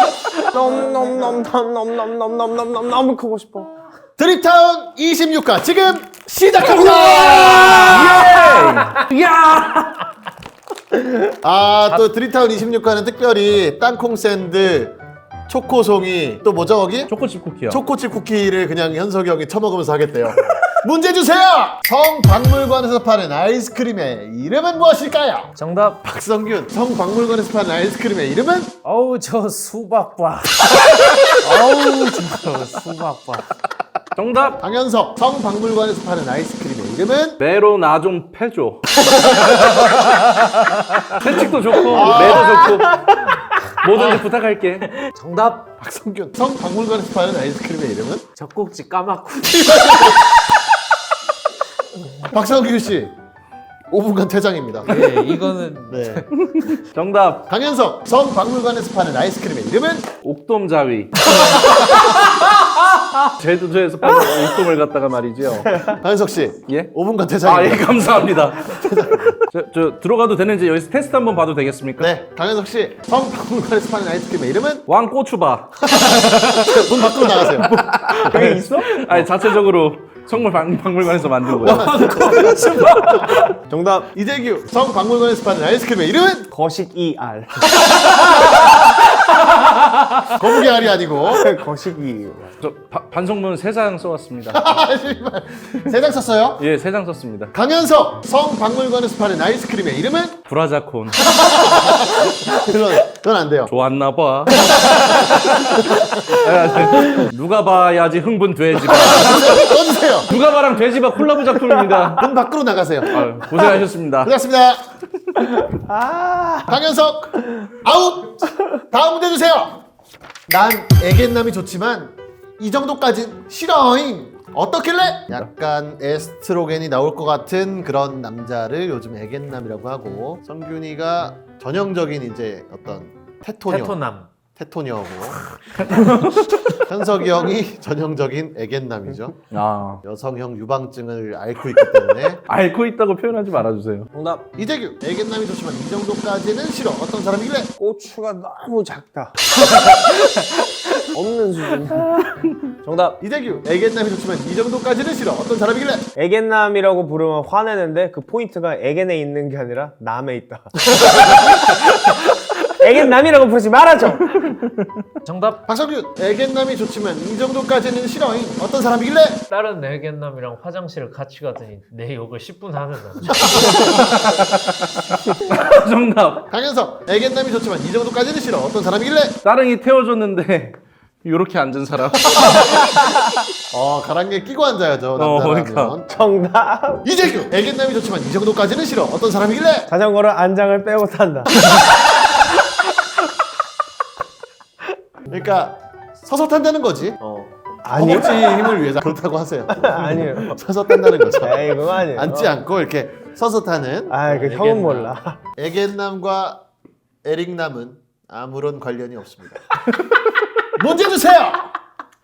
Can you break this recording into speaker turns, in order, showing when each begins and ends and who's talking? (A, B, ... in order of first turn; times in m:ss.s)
0:00.4-0:03.7 A
0:04.2-0:08.3 B
0:06.7-0:10.1 C
0:08.2-0:08.9 D
0:11.2-0:14.9 B
0:15.5-0:17.1 B
0:17.1-0:17.8 C
0:17.7-0:25.5 B
0:25.6-0:26.0 D
0:26.0-0:28.8 B
0:28.8-0:33.5 D
0:34.2-0:34.6 C
0:34.6-0:37.4 B
0:37.4-0:43.2 C
0:39.1-0:39.5 D
0:41.9-0:42.8 B
0:43.7-0:45.1 C
0:43.9-0:44.2 B
0:45.0-0:45.7 D
0:45.8-0:48.2 B
0:48.4-0:50.2 D
0:49.5-0:50.2 B
0:52.2-0:53.1 B
0:53.9-0:55.0 B
0:54.8-0:56.2 D
0:55.9-0:56.3 B
0:56.4-0:57.5 C
0:57.5-1:00.1 B
1:00.2-1:05.8 C
1:05.8-1:09.4 B
1:07.4-1:12.1 C
1:12.0-1:14.9 B
1:14.9-1:23.5 C
1:15.8-1:17.8 B
1:18.1-1:19.3 A
1:21.6-1:23.4 B
1:21.9-1:22.6 A
1:22.0-1:22.9 D
1:23.6-1:24.1 A
1:24.1-1:26.5 B
1:26.5-1:28.0 A
1:30.3-1:31.5 B
1:31.3-1:32.5 A
1:32.6-1:34.6 C
1:34.5-1:36.6 B
1:36.6-1:37.5 C
1:37.5-1:40.4 B
1:40.4-1:41.3 C
1:41.2-1:43.7 B
1:43.7-1:52.3 C
1:48.8-1:50.3 B
1:52.2-1:53.7 B
1:53.0-1:54.3 C
1:54.2-1:54.9 B
1:55.4-1:56.8 A
1:56.7-1:59.8 B
2:00.5-2:14.0 B
2:13.7-2:14.3 D
2:14.5-2:15.4 B
2:15.8-2:16.8 C
2:16.8-2:19.4 B
2:19.5-2:20.0 C
2:20.0-2:22.4 B
2:22.5-2:24.1 C
2:24.1-2:24.4 A
2:24.6-2:27.7 B
2:27.8-2:29.4 A
2:29.6-2:30.7 D
2:31.1-2:32.2 A
2:32.8-2:33.2 A
2:33.2-2:36.1 B
2:36.2-2:41.8 A
2:42.6-2:44.4 A
2:44.4-2:44.7 C
2:45.2-2:45.6 D
2:45.6-2:49.4 B
2:49.5-2:53.9 D
2:53.3-2:53.8 B
2:53.7-2:56.5 C
2:56.5-2:59.4 B
2:59.4-3:03.3 C
3:02.4-3:02.6 B
3:03.7-3:06.1 B
3:05.2-3:06.0 C
3:06.1-3:07.1 A
3:07.0-3:09.9 B
3:09.9-3:11.5 A
3:15.2-3:24.1 B
3:17.8-3:18.8 A
3:19.8-3:20.6 A
3:21.4-3:22.6 A
3:24.1-3:25.4 A
3:24.3-3:25.1 D
3:25.6-3:26.6 B
3:27.2-3:29.7 B
3:30.8-3:31.7 B